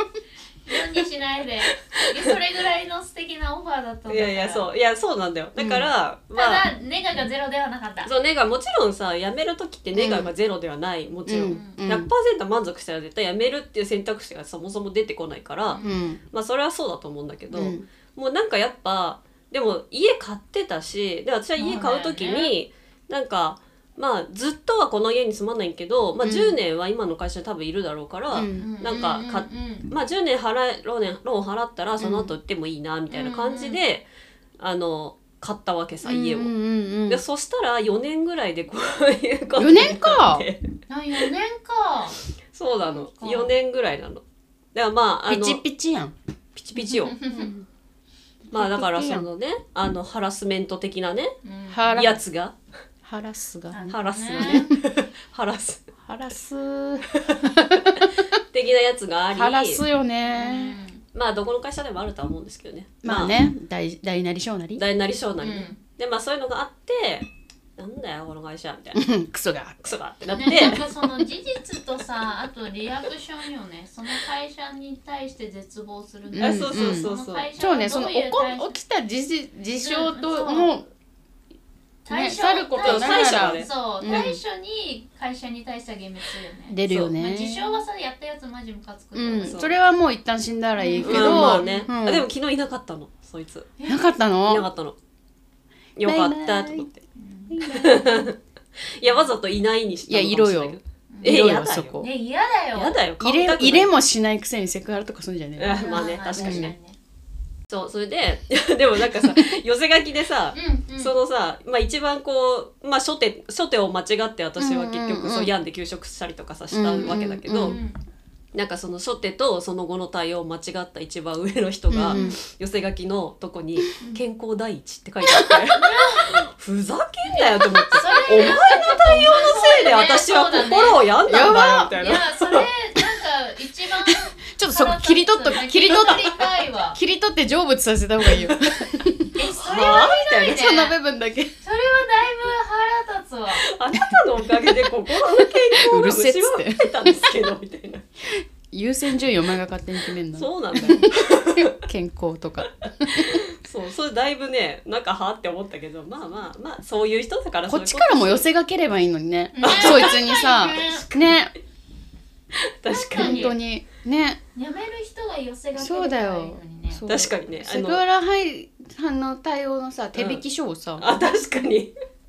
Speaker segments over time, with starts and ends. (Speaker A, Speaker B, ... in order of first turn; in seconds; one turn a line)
Speaker A: 0.7-4.7
Speaker B: 4.1-6.7
Speaker C: 5.6-5.9
Speaker A: 6.3-8.1
Speaker B: 8.1-34.1
Speaker C: 9.9-10.3
Speaker C: 11.3-12.1
Speaker A: 11.4-11.8
Speaker A: 15.7-16.0
Speaker C: 15.8-16.2
Speaker C: 17.5-17.9
Speaker A: 21.6-22.5
Speaker C: 26.2-26.6
Speaker C: 28.3-28.7
Speaker A: 28.6-29.9
Speaker C: 32.0-32.3
Speaker A: 33.1-33.8
Speaker B: 34.6-36.5
Speaker C: 36.0-37.2
Speaker B: 37.1-40.7
Speaker C: 39.6-40.5
Speaker A: 40.9-42.2
Speaker B: 42.5-44.2
Speaker A: 42.9-43.5
Speaker B: 44.7-45.6
Speaker C: 45.3-46.1
Speaker B: 46.6-47.2
Speaker A: 46.9-47.5
Speaker C: 47.3-47.6
Speaker C: 48.5-49.3
Speaker B: 48.5-51.4
Speaker A: 51.4-52.0
Speaker C: 51.7-52.2
Speaker B: 51.9-52.5
Speaker C: 53.0-54.8
Speaker A: 53.7-54.7
Speaker B: 53.9-55.8
Speaker C: 56.1-58.1
Speaker B: 57.2-57.5
Speaker B: 58.5-59.8
Speaker C: 59.4-60.8
Speaker A: 60.3-61.0
Speaker B: 61.1-63.4
Speaker C: 63.0-64.8
Speaker B: 64.8-69.0
Speaker A: 65.4-65.8
Speaker C: 69.0-69.9
Speaker B: 69.8-70.9
Speaker A: 70.3-78.8
Speaker C: 70.5-70.9
Speaker C: 76.3-80.8
Speaker B: 76.4-77.5
Speaker A: 79.8-80.7
Speaker A: 82.0-89.6
Speaker C: 82.1-84.4
Speaker B: 82.8-84.3
Speaker C: 86.7-87.8
Speaker B: 86.9-87.1
Speaker C: 89.2-92.3
Speaker B: 89.5-89.7
Speaker A: 90.8-91.9
Speaker B: 91.0-93.7
Speaker A: 93.8-94.2
Speaker C: 93.9-94.7
Speaker B: 94.5-95.0
Speaker B: 96.0-96.9
Speaker C: 96.0-96.9
Speaker A: 97.2-97.6
Speaker C: 97.5-98.3
Speaker B: 97.7-98.3
Speaker B: 98.9-102.0
Speaker C: 100.1-102.1
Speaker A: 101.1-101.3
Speaker A: 102.0-103.0
Speaker B: 102.8-103.9
Speaker C: 103.2-106.7
Speaker B: 105.6-106.7
Speaker A: 105.7-107.0
Speaker B: 107.7-117.8
Speaker C: 109.1-109.5
Speaker A: 110.5-111.1
Speaker C: 114.6-115.5
Speaker C: 116.7-117.8
Speaker A: 117.6-118.0
Speaker B: 118.5-132.7
Speaker C: 121.9-122.3
Speaker A: 122.1-122.4
Speaker A: 125.7-126.5
Speaker A: 127.3-131.0
Speaker C: 131.3-131.9
Speaker A: 131.9-137.0
Speaker C: 134.1-136.4
Speaker C: 136.9-139.3
Speaker A: 139.3-140.9
Speaker B: 139.6-140.7
Speaker C: 140.5-141.5
Speaker A: 141.6-143.7
Speaker B: 143.7-148.1
Speaker C: 144.4-147.3
Speaker C: 148.3-153.4
Speaker B: 150.3-151.8
Speaker B: 153.1-158.5
Speaker C: 157.7-161.5
Speaker A: 159.6-161.1
Speaker B: 159.6-160.2
Speaker B: 162.6-163.5
Speaker A: 162.9-163.6
Speaker C: 163.2-164.4
Speaker A: 164.6-167.0
Speaker C: 165.8-171.1
Speaker B: 167.1-168.0
Speaker B: 170.2-170.4
Speaker B: 171.0-171.9